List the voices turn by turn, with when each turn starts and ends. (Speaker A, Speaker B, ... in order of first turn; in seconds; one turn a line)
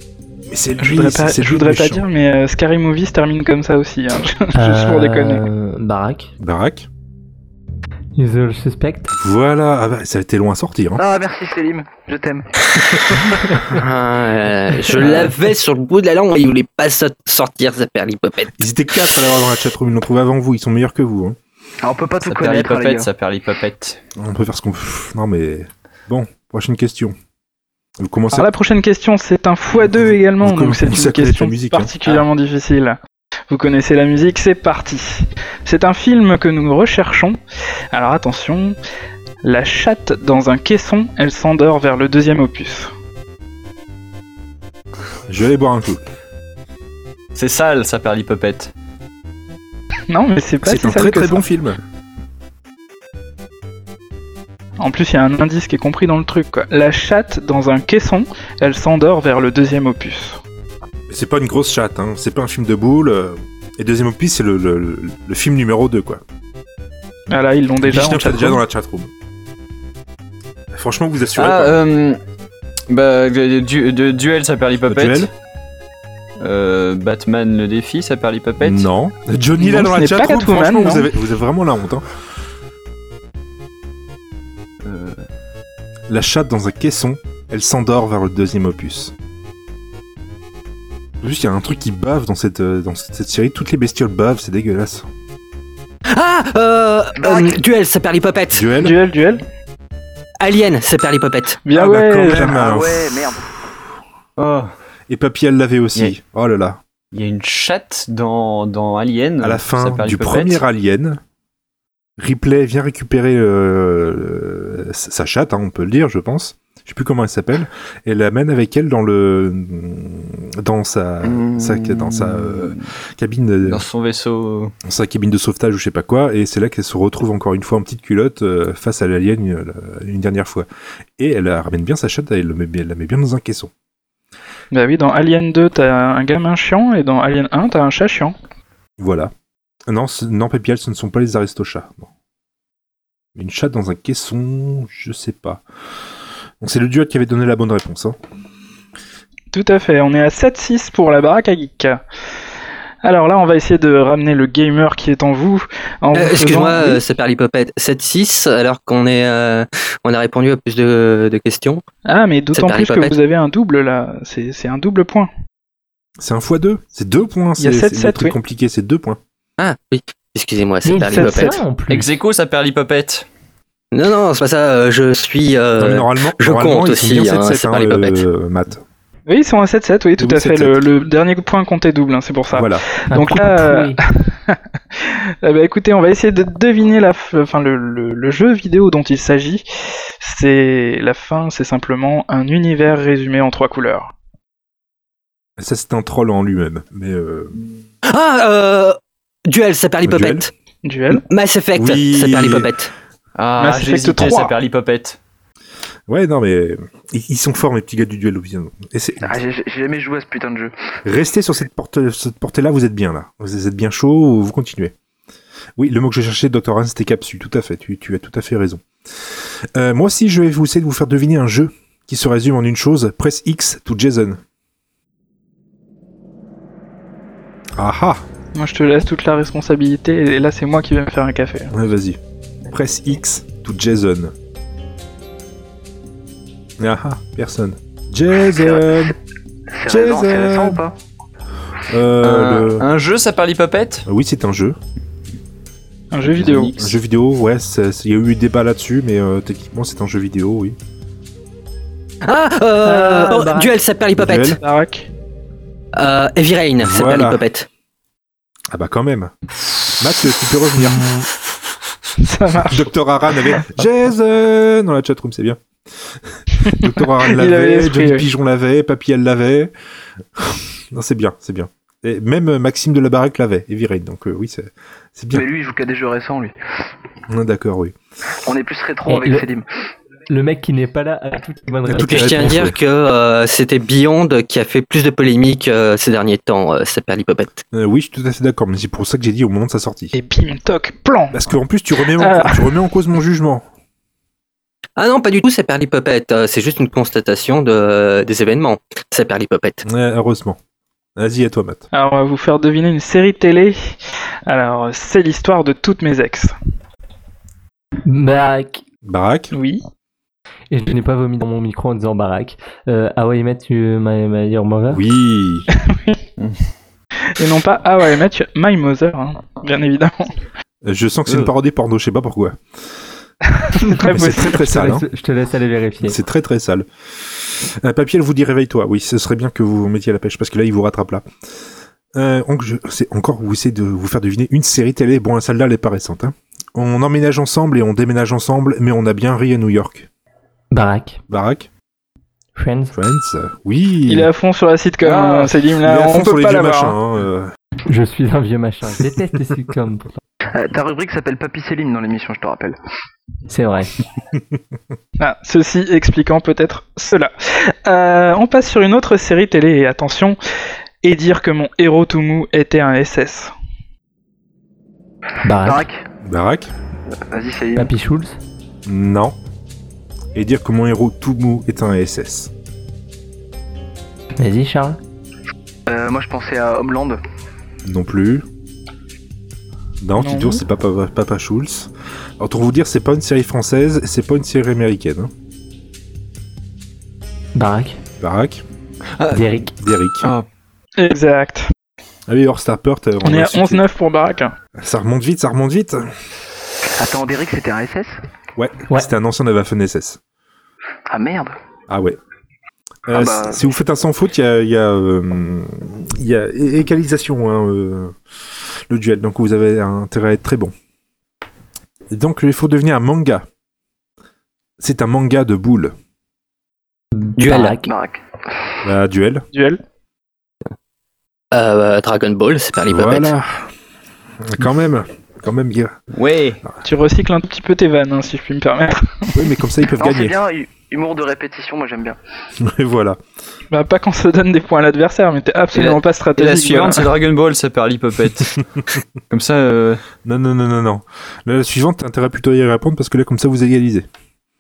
Speaker A: 0.5-2.0
Speaker B: 0.8-5.5
Speaker C: 4.5-6.3
Speaker A: 6.4-6.9
Speaker C: 8.2-9.1
Speaker A: 9.1-11.0
Speaker D: 11.0-12.5
Speaker E: 13.7-18.6
Speaker A: 18.6-21.4
Speaker D: 21.8-23.1
Speaker F: 22.2-24.0
Speaker A: 24.2-27.1
Speaker A: 28.0-28.5
Speaker B: 28.3-33.0
Speaker A: 29.9-31.9
Speaker B: 33.5-37.4
Speaker B: 37.9-38.8
Speaker B: 39.4-42.9
Speaker A: 45.3-46.0
Speaker F: 47.4-48.7
Speaker B: 50.1-51.4
Speaker A: 50.6-51.8
Speaker B: 54.8-60.4
Speaker A: 61.1-66.2
Speaker B: 67.3-68.6
Speaker A: 67.8-69.1
Speaker A: 70.7-71.8
Speaker F: 71.3-72.2
Speaker F: 72.9-75.3
Speaker A: 74.9-75.3
Speaker F: 76.4-78.9
Speaker A: 78.6-82.1
Speaker B: 79.6-81.1
Speaker F: 84.8-85.2
Speaker A: 86.1-89.1
Speaker A: 91.2-95.1
Speaker E: 96.1-98.7
Speaker D: 97.2-97.6
Speaker A: 98.5-99.0
Speaker B: 98.8-99.4
Speaker E: 100.4-101.6
Speaker B: 101.7-102.5
Speaker A: 101.7-103.7
Speaker D: 102.4-103.5
Speaker F: 104.4-104.7
Speaker A: 105.1-106.8
Speaker F: 107.1-110.6
Speaker A: 109.4-111.2
Speaker A: 112.2-123.8
Speaker F: 121.2-122.8
Speaker F: 123.7-124.7
Speaker A: 124.8-130.7
Speaker A: 131.2-133.7
Speaker B: 134.7-138.3
Speaker A: 139.0-139.3
Speaker A: 139.9-142.1
Speaker A: 143.4-145.6
Speaker A: 146.6-148.2
Speaker B: 149.5-152.0
Speaker B: 153.0-157.0
Speaker E: 156.1-161.8
Speaker B: 162.1-165.3
Speaker E: 162.5-163.2
Speaker A: 166.2-169.2
Speaker B: 167.6-168.4
Speaker E: 169.6-171.6
Speaker C: 170.8-172.1
Speaker B: 171.1-171.6
Speaker F: 171.9-173.3
Speaker E: 173.9-178.2
Speaker A: 175.8-178.8
Speaker B: 179.3-189.6
Speaker A: 180.2-180.8
Speaker A: 182.5-182.9
Speaker C: 183.1-184.0
Speaker B: 190.2-194.1
Speaker A: 195.6-197.6
Speaker E: 198.1-200.5
Speaker A: 200.1-200.5
Speaker B: 200.8-201.2
Speaker E: 201.1-202.9
Speaker A: 201.8-202.7
Speaker F: 203.4-205.2
Speaker B: 203.6-204.5
Speaker A: 206.1-209.4
Speaker D: 209.2-210.7
Speaker A: 211.1-214.9
Speaker A: 215.8-218.8
Speaker A: 219.8-224.4
Speaker A: 227.8-228.2
Speaker B: 228.6-231.7
Speaker A: 231.7-234.3
Speaker A: 236.8-239.2
Speaker D: 238.5-239.1
Speaker D: 239.8-240.9
Speaker A: 239.9-240.8
Speaker A: 241.9-242.9
Speaker F: 242.2-244.1
Speaker A: 244.1-244.8
Speaker B: 246.1-246.7
Speaker F: 246.4-246.9
Speaker A: 246.8-250.8
Speaker E: 252.2-254.6
Speaker C: 252.8-253.7
Speaker A: 254.2-254.6
Speaker B: 254.6-255.1
Speaker E: 255.9-257.7
Speaker A: 256.8-257.4
Speaker A: 258.7-259.3
Speaker A: 260.0-261.1
Speaker C: 260.9-261.2
Speaker B: 262.2-262.9
Speaker A: 262.6-265.6
Speaker A: 266.6-269.7
Speaker B: 266.6-268.3
Speaker A: 270.4-275.5
Speaker D: 275.3-276.5
Speaker A: 277.3-277.9
Speaker D: 278.4-279.7
Speaker C: 279.1-279.5
Speaker C: 280.3-282.6
Speaker A: 281.9-282.8
Speaker E: 281.9-287.6
Speaker A: 287.7-290.1
Speaker B: 290.1-291.4
Speaker A: 291.3-293.6
Speaker B: 292.1-292.8
Speaker E: 295.0-299.8
Speaker A: 299.9-300.6
Speaker A: 301.2-301.9
Speaker B: 301.9-303.9
Speaker B: 304.5-306.5
Speaker C: 308.1-308.8
Speaker A: 309.0-309.5
Speaker B: 309.5-309.8
Speaker C: 310.7-315.0
Speaker A: 314.9-315.7
Speaker B: 315.8-316.2
Speaker B: 317.2-320.4
Speaker A: 320.8-322.6
Speaker B: 323.6-324.6
Speaker C: 323.9-326.2
Speaker A: 324.1-325.1
Speaker A: 326.0-331.2
Speaker A: 332.1-340.1
Speaker C: 340.7-341.2
Speaker A: 341.3-341.7
Speaker C: 342.6-342.9
Speaker A: 342.9-344.3
Speaker B: 344.1-346.9
Speaker A: 345.1-347.5
Speaker C: 347.9-350.2
Speaker D: 350.5-352.8
Speaker C: 353.5-353.9
Speaker B: 355.2-360.4
Speaker B: 361.0-363.5
Speaker C: 365.4-365.9
Speaker D: 365.6-366.1
Speaker A: 366.2-366.7
Speaker D: 367.3-367.9
Speaker C: 367.8-368.4
Speaker A: 368.9-369.4
Speaker A: 370.4-372.5
Speaker C: 374.4-375.0
Speaker D: 375.9-377.2
Speaker A: 377.9-378.4
Speaker A: 380.0-385.3
Speaker B: 380.2-380.6
Speaker C: 387.6-388.0
Speaker A: 388.2-388.6
Speaker F: 389.2-389.4
Speaker C: 389.3-389.7
Speaker A: 389.8-390.3
Speaker B: 391.0-391.7
Speaker A: 392.3-393.8
Speaker B: 393.2-394.5
Speaker A: 394.8-396.1
Speaker D: 396.9-398.2
Speaker A: 398.6-400.2
Speaker D: 401.1-401.6
Speaker A: 401.9-402.2
Speaker A: 403.1-408.2
Speaker D: 403.1-403.7
Speaker A: 408.9-410.7
Speaker A: 412.1-413.5
Speaker A: 414.8-415.9
Speaker C: 417.2-417.9
Speaker E: 417.4-417.8
Speaker D: 417.8-418.2
Speaker A: 418.8-419.5
Speaker B: 419.5-419.8
Speaker E: 421.5-423.3
Speaker A: 422.9-423.7
Speaker A: 424.4-426.0
Speaker F: 426.1-426.6
Speaker B: 426.8-429.3
Speaker A: 429.3-430.4
Speaker D: 430.0-432.2
Speaker A: 432.6-433.2
Speaker B: 433.7-437.1
Speaker F: 435.7-438.6
Speaker F: 439.3-440.0
Speaker A: 440.2-444.1